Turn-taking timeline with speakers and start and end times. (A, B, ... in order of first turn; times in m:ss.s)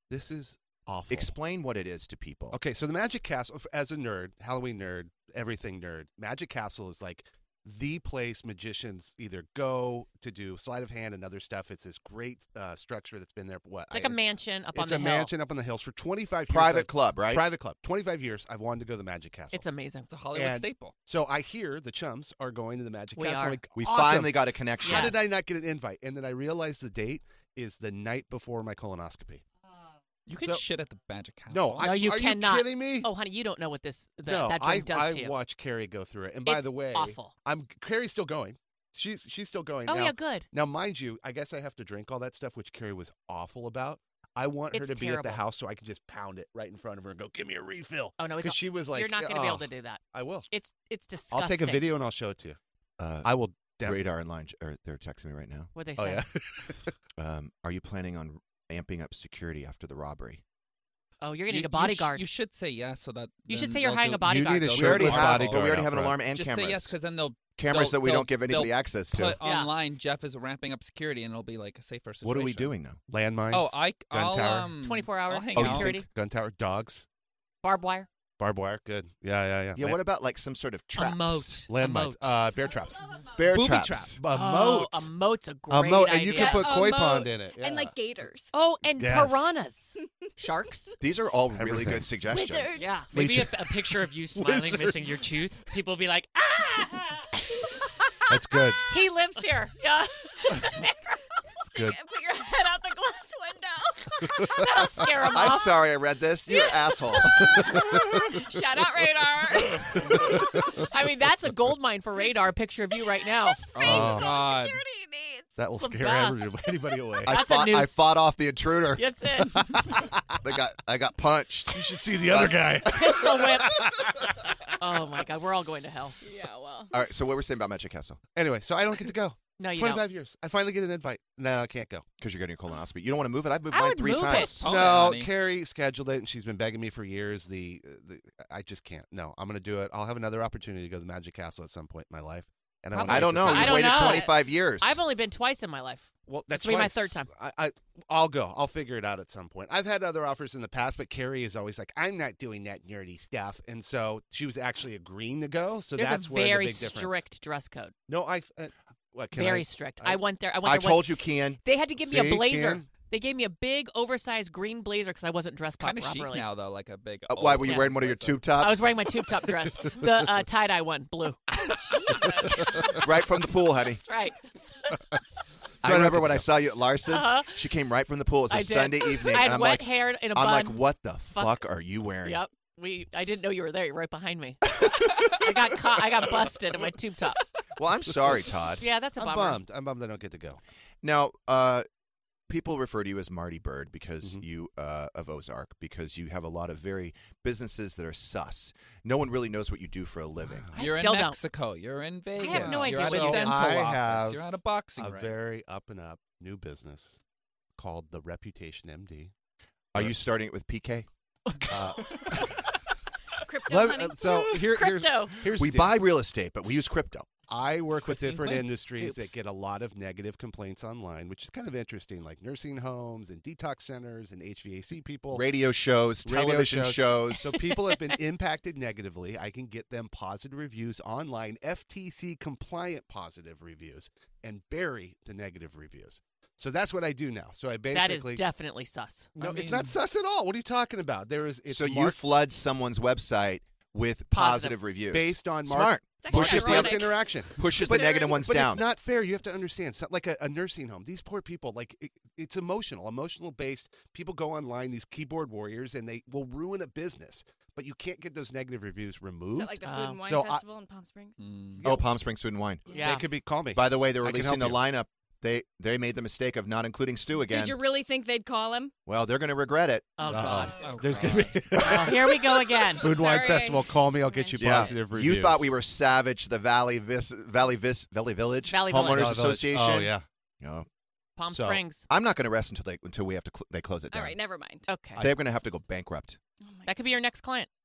0:00.1-0:01.3 A
0:01.1-0:02.6 B
0:02.5-0:14.2 A
0:13.9-0:15.3 C
0:14.7-0:19.7 A
0:16.5-0:17.5 B
0:19.5-0:20.1 C
0:20.1-0:21.0 D
0:20.3-0:29.4 A
0:23.2-0:23.6 C
0:23.8-0:25.2 B
0:24.8-0:25.2 C
0:30.3-0:32.0 D
0:30.4-0:30.7 A
0:31.5-0:33.1 A
0:31.8-0:35.4 C
0:34.3-0:50.5 A
0:36.4-0:37.3 C
0:39.9-0:40.5 C
0:44.7-0:45.4 C
0:48.2-0:51.9 C
0:51.3-0:52.6 A
0:53.0-0:55.7 B
0:53.2-0:54.1 A
0:55.8-0:56.3 C
0:56.0-0:56.9 A
0:57.2-1:00.4 B
1:01.2-1:02.3 C
1:01.5-1:12.7 D
1:03.5-1:04.8 C
1:04.2-1:06.2 A
1:04.8-1:06.9 B
1:07.6-1:09.4 B
1:09.4-1:09.7 C
1:12.2-1:13.0 B
1:12.5-1:14.8 A
1:13.5-1:16.0 D
1:14.8-1:16.1 C
1:15.6-1:16.0 B
1:15.6-1:17.1 A
1:17.6-1:18.1 C
1:18.4-1:20.0 A
1:19.8-1:21.6 B
1:21.0-1:22.4 E
1:21.7-1:23.1 A
1:23.4-1:24.2 B
1:23.5-1:24.2 D
1:24.1-1:25.1 A
1:24.3-1:26.8 C
1:25.7-1:28.0 A
1:26.3-1:28.5 F
1:28.5-1:30.9 C
1:29.0-1:29.5 A
1:31.0-1:32.9 B
1:31.5-1:32.1 A
1:32.3-1:33.0 F
1:32.8-1:33.1 C
1:33.1-1:37.3 E
1:33.1-1:35.2 A
1:38.3-1:38.8 A
1:38.9-1:41.1 C
1:41.6-1:44.6 F
1:41.7-1:42.0 A
1:44.5-1:45.8 C
1:45.3-1:47.6 B
1:46.5-1:50.4 F
1:50.8-1:53.6 C
1:53.3-1:55.6 F
1:53.8-1:54.8 D
1:53.8-1:54.4 A
1:55.6-1:57.4 A
1:55.8-1:56.5 C
1:57.2-1:59.0 B
1:57.3-1:58.1 C
1:59.0-1:59.7 C
1:59.4-2:00.4 A
2:00.4-2:03.2 B
2:01.7-2:04.5 A
2:02.8-2:03.9 C
2:04.8-2:06.2 C
2:06.2-2:06.9 F
2:06.9-2:08.2 B
2:08.4-2:12.1 A
2:09.6-2:10.1 C
2:12.2-2:14.7 B
2:13.7-2:14.6 C
2:14.4-2:15.3 D
2:14.6-2:24.2 A
2:22.9-2:27.3 C
2:23.1-2:25.0 B
2:26.3-2:37.2 A
2:36.0-2:38.0 C
2:38.1-2:40.2 A
2:39.4-2:46.5 C
2:40.6-2:41.6 B
2:42.0-2:42.9 A
2:45.8-2:48.4 D
2:47.3-2:49.1 B
2:47.6-2:47.9 C
2:48.6-2:52.9 C
2:51.7-2:52.9 F
2:53.0-2:54.0 B
2:54.0-2:54.4 C
2:55.8-2:56.5 A
2:55.8-3:02.4 B
2:57.1-2:57.6 C
2:58.5-3:01.6 C
3:02.2-3:07.4 C
3:07.8-3:08.8 B
3:08.8-3:09.6 C
3:09.2-3:10.6 A
3:11.0-3:11.9 B
3:12.5-3:20.7 B
3:20.4-3:21.0 A
3:20.8-3:21.4 C
3:20.8-3:25.4 D
3:22.4-3:23.6 C
3:22.4-3:27.2 A
3:27.8-3:29.3 A
3:29.9-3:31.1 B
3:31.7-3:32.6 A
3:33.4-3:34.7 F
3:33.7-3:36.0 A
3:34.5-3:35.4 C
3:35.4-3:37.3 B
3:37.5-3:45.5 A
3:38.2-3:38.7 D
3:38.8-3:39.3 C
3:45.3-3:47.6 B
3:46.2-3:58.4 A
3:47.7-3:48.0 C
3:57.9-3:59.4 C
3:59.4-4:02.2 A
4:01.7-4:07.0 B
4:04.3-4:04.8 C
4:05.1-4:20.6 A
4:06.2-4:08.5 F
4:07.6-4:08.9 B
4:19.5-4:21.4 F
4:19.8-4:20.2 C
4:21.4-4:21.8 D
4:21.8-4:22.1 A
4:21.8-4:22.9 B
4:22.9-4:23.3 C
4:22.9-4:24.8 A
4:23.7-4:27.8 B
4:27.4-4:28.9 F
4:29.1-4:30.7 B
4:30.2-4:33.2 C
4:30.3-4:35.7 A
4:30.8-4:31.7 D
4:32.9-4:35.0 F
4:34.6-4:40.9 B
4:38.7-4:39.3 C
4:38.9-4:40.2 A
4:41.4-4:42.0 C
4:41.5-4:41.8 A
4:42.1-4:44.4 B
4:44.1-4:44.9 F
4:44.9-4:45.2 C
4:45.2-4:45.4 A
4:45.2-4:46.4 B
4:46.6-4:46.9 F
4:46.8-4:47.7 C